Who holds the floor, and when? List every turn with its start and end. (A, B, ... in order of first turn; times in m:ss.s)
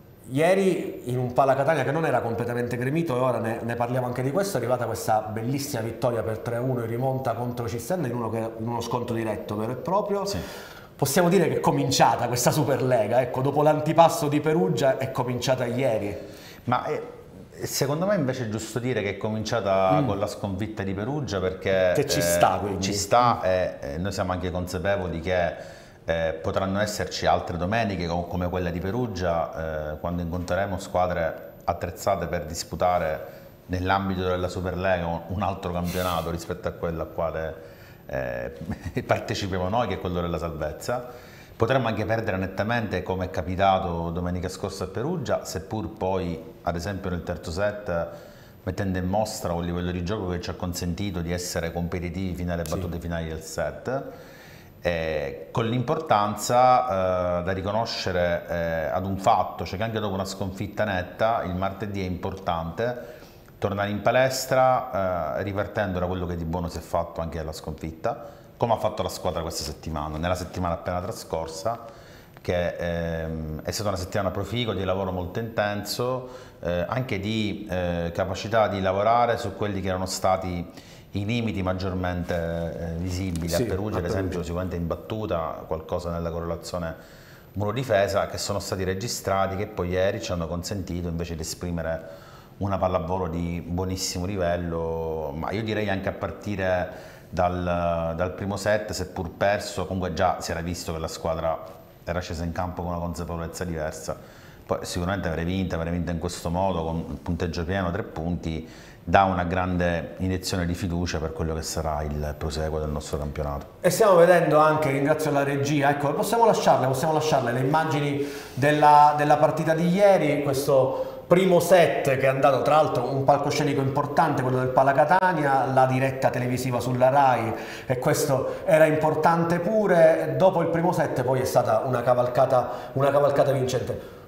0:00.3-0:10.4 A
0:11.0-0:16.2 A
0:16.6-0:41.0 B
0:21.9-0:23.3 A
0:41.6-0:48.1 B
0:48.6-0:54.1 B
0:54.8-1:03.1 B
1:03.6-1:11.8 B
1:12.4-1:27.0 B
1:23.5-1:24.4 A
1:27.5-1:32.1 B
1:32.6-1:53.7 B
1:53.8-2:14.0 A